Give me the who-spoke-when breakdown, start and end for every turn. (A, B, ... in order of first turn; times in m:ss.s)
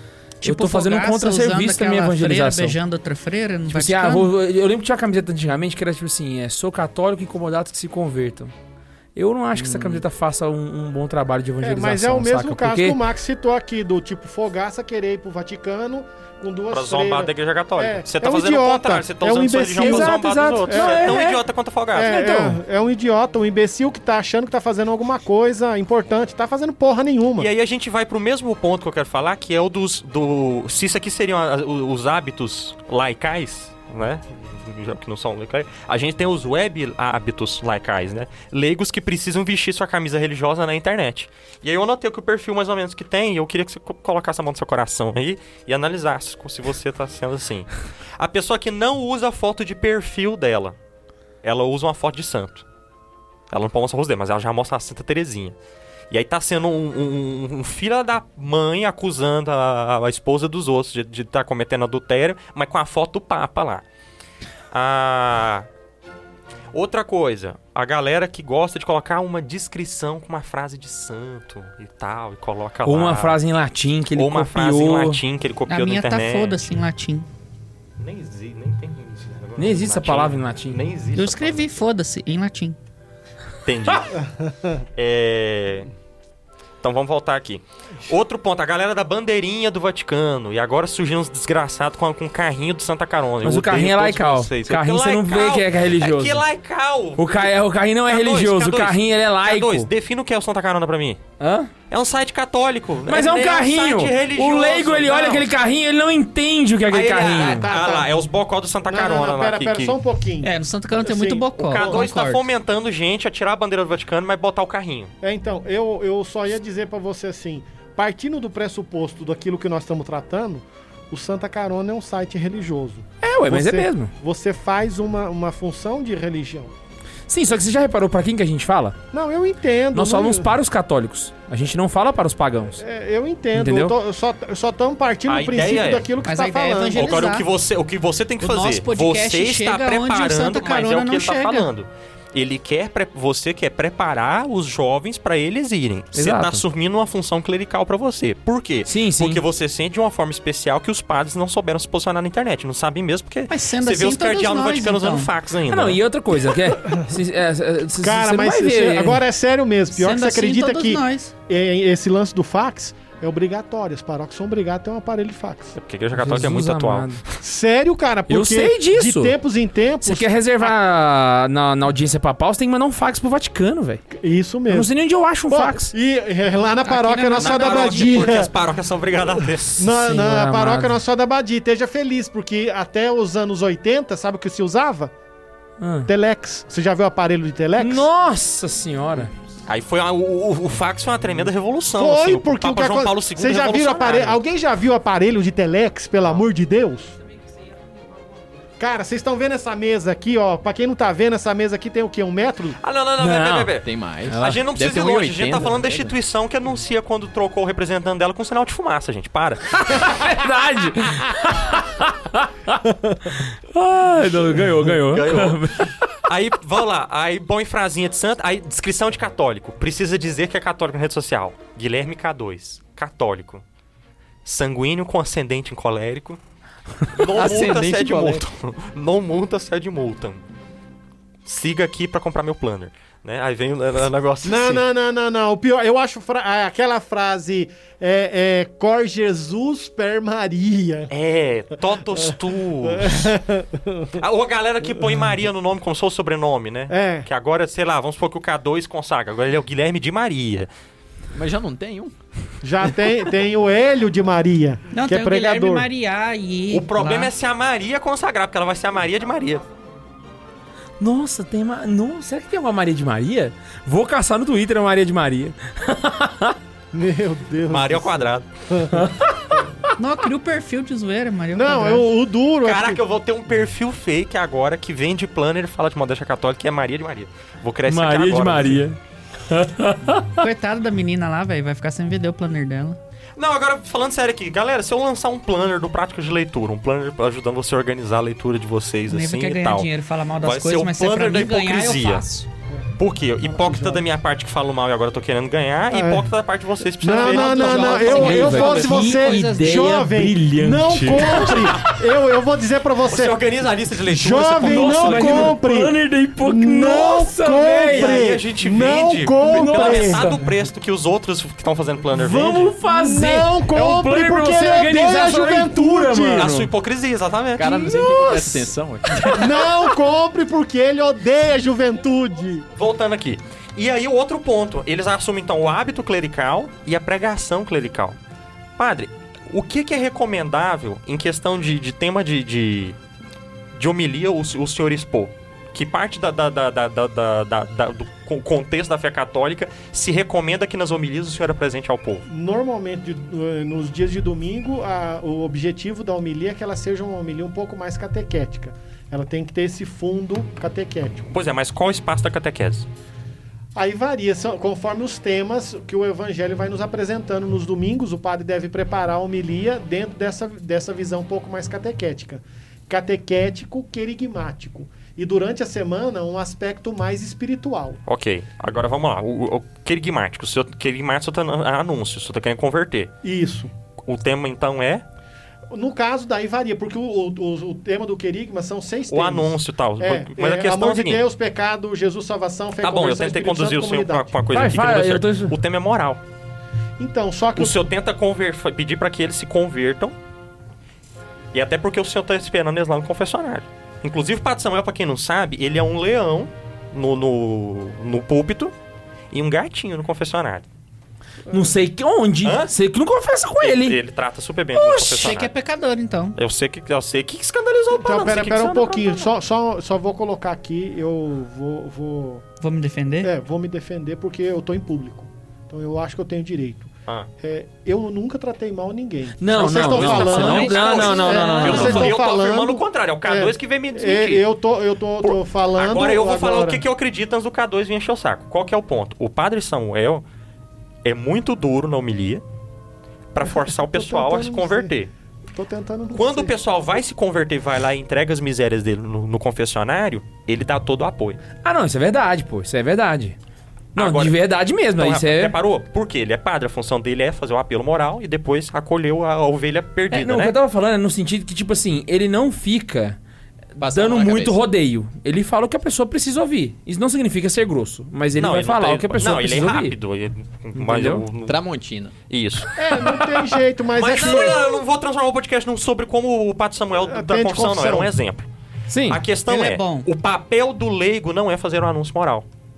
0:00.4-0:04.3 A
0:00.4-0:02.8 B
0:03.7-0:08.5 B
0:09.1-0:13.0 B
0:11.6-0:21.4 C
0:16.7-0:22.2 D
0:19.8-0:21.4 B
0:21.9-0:27.5 C
0:22.0-0:22.6 B
0:27.4-0:50.8 D
0:51.4-0:52.6 D
0:53.5-0:55.6 D
0:56.1-1:03.8 D
1:04.7-1:05.7 D
1:06.7-1:13.4 D
1:12.8-1:15.2 B
1:14.2-1:16.7 D
1:15.7-1:17.2 A
1:18.0-1:21.8 D
1:19.6-1:20.8 B
1:21.1-1:22.8 A
1:23.6-1:24.1 D
1:24.2-1:24.8 C
1:25.0-1:25.9 D
1:26.8-1:37.5 D
1:33.4-1:36.4 B
1:37.2-1:39.9 B
1:38.1-1:41.2 D
1:41.4-1:41.7 B
1:41.9-1:45.5 D
1:43.1-1:47.7 B
1:46.9-1:50.0 D
1:47.5-1:48.1 C
1:48.9-1:52.1 C
1:50.4-1:52.4 A
1:51.6-1:55.1 D
1:55.2-2:06.7 C
2:03.2-2:04.1 B
2:07.3-2:09.0 B
2:09.1-2:10.5 C
2:09.9-2:12.8 B
2:12.8-2:17.3 C
2:13.5-2:13.9 B
2:15.3-2:16.0 D
2:16.2-2:17.5 A
2:16.9-2:36.0 D
2:18.4-2:21.7 A
2:26.1-2:26.6 B
2:28.8-2:29.4 B
2:33.5-2:35.3 A
2:35.7-2:39.2 B
2:38.0-2:45.8 C
2:39.9-2:41.3 A
2:45.8-2:47.4 D
2:46.1-2:47.2 B
2:47.4-2:50.7 C
2:48.3-2:49.3 B
2:50.0-2:54.0 B
2:54.1-2:54.9 C
2:54.7-2:55.9 B
2:55.5-2:58.5 C
2:56.8-2:58.3 A
2:57.4-2:59.9 D
2:59.8-3:05.1 C
2:59.9-3:00.9 B
3:05.8-3:06.1 B
3:06.0-3:08.1 C
3:07.8-3:09.3 B
3:09.7-3:14.4 D
3:12.0-3:17.2 C
3:18.8-3:22.8 C
3:22.8-3:30.2 D
3:23.2-3:23.7 B
3:23.8-3:26.2 E
3:24.3-3:24.6 B
3:29.8-3:36.0 B
3:33.0-3:33.3 C
3:35.1-3:43.6 D
3:44.4-3:46.4 D
3:47.1-3:50.4 D
3:47.3-3:48.4 E
3:51.4-3:54.8 D
3:54.4-4:01.1 C
4:01.1-4:03.3 D
4:02.2-4:04.2 C
4:04.2-4:10.7 D
4:06.9-4:07.3 C
4:11.3-4:12.1 E
4:12.6-4:15.9 C
4:14.9-4:17.3 A
4:16.7-4:19.6 D
4:21.0-4:26.6 B
4:26.9-4:28.9 C
4:27.7-4:28.4 D
4:28.9-4:29.6 B
4:30.0-4:32.1 A
4:31.5-4:33.0 C
4:32.6-4:38.8 D
4:37.9-4:40.4 B
4:40.4-4:43.0 A
4:43.4-4:49.9 D
4:49.1-4:52.5 A
4:50.4-4:52.2 D
4:53.0-4:58.7 D
4:53.4-4:54.0 C
4:55.9-4:56.3 C
4:57.0-5:03.4 C
4:57.1-5:00.0 A
4:58.0-5:01.9 B
5:01.2-5:01.7 D
5:03.0-5:05.6 D
5:04.0-5:10.3 C
5:04.6-5:08.3 B
5:07.8-5:12.7 D
5:09.4-5:10.3 B
5:12.1-5:16.7 B
5:12.8-5:16.5 C
5:16.3-5:17.7 D
5:17.6-5:19.7 E
5:17.9-5:19.4 B
5:19.4-5:22.7 C
5:22.8-5:28.2 D
5:28.8-5:33.0 D
5:33.7-5:42.2 D
5:42.3-5:51.2 C
5:51.3-5:52.9 D
5:53.8-6:08.0 C
6:08.1-6:13.1 D
6:13.2-6:13.7 C
6:14.0-6:15.0 D
6:15.7-6:24.4 C
6:19.1-6:21.2 D
6:22.8-6:26.2 D
6:24.5-6:25.6 B
6:27.0-6:27.8 C
6:27.6-6:30.2 D
6:31.5-6:38.7 D
6:39.3-6:40.7 D
6:41.5-6:44.0 B
6:42.4-6:42.7 D
6:43.6-6:45.5 D
6:44.7-6:46.4 A
6:46.4-6:49.3 D
6:47.9-6:52.4 C
6:52.6-6:53.3 A
6:53.2-7:06.8 C
6:59.4-7:02.1 B
6:59.5-7:04.4 D
7:01.3-7:01.9 A
7:05.2-7:10.2 D
7:11.0-7:12.4 D
7:13.3-7:15.1 D
7:13.4-7:14.9 C
7:15.5-7:16.5 C
7:16.1-7:21.4 D
7:21.6-7:23.4 B
7:23.9-7:24.4 D
7:23.9-7:25.5 B
7:25.0-7:30.5 D
7:30.1-7:33.2 B
7:33.8-7:34.6 E
7:33.8-7:39.9 B
7:38.4-7:41.5 D
7:40.8-7:41.3 B
7:41.4-7:42.1 E
7:42.3-7:42.8 D
7:42.8-7:44.8 C
7:42.8-7:43.3 B
7:43.9-7:48.5 D
7:47.0-7:48.1 C
7:48.9-7:49.2 B
7:49.1-7:52.4 D
7:49.5-7:50.1 A